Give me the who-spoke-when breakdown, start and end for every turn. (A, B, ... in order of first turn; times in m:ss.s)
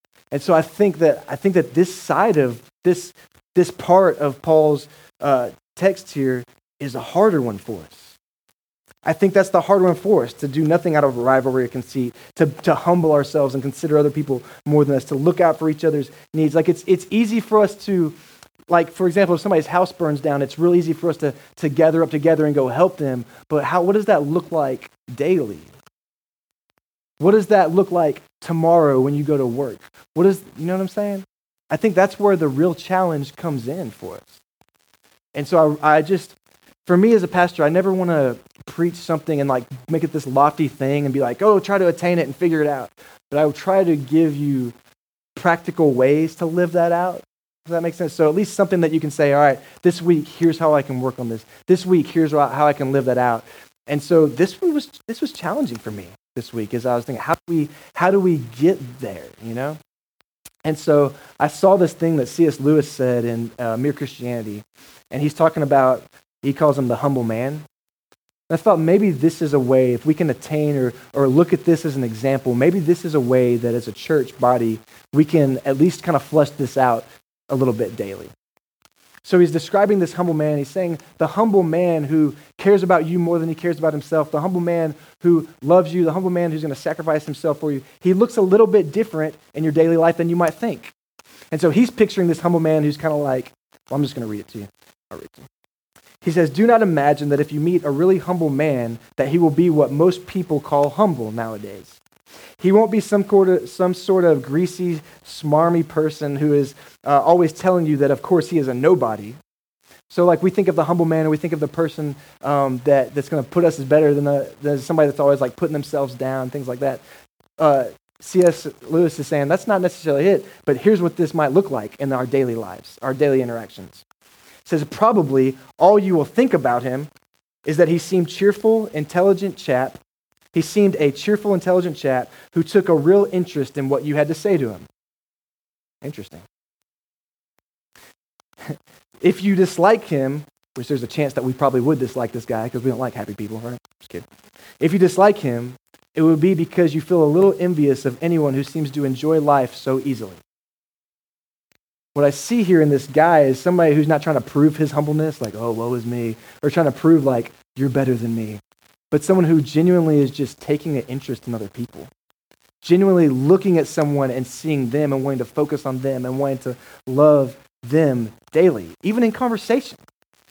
0:00.3-0:08.2 A
0:09.0-0:18.1 A
0:18.7-0:25.7 A
0:27.2-0:34.4 A
0:35.3-0:44.7 A
0:45.4-0:59.8 A
1:00.6-1:07.6 A
1:08.5-1:18.3 A
1:19.2-1:30.9 A
1:31.5-1:35.5 A
1:36.2-1:42.0 A
1:42.6-1:49.4 A
1:50.1-1:57.0 A
1:57.6-2:04.0 A
2:04.6-2:07.1 A
2:07.6-2:10.0 A
2:10.5-2:14.9 A
2:16.0-2:16.4 A
2:18.6-2:24.2 A
2:24.8-2:30.4 A
2:32.1-2:42.1 A
2:42.8-2:50.0 A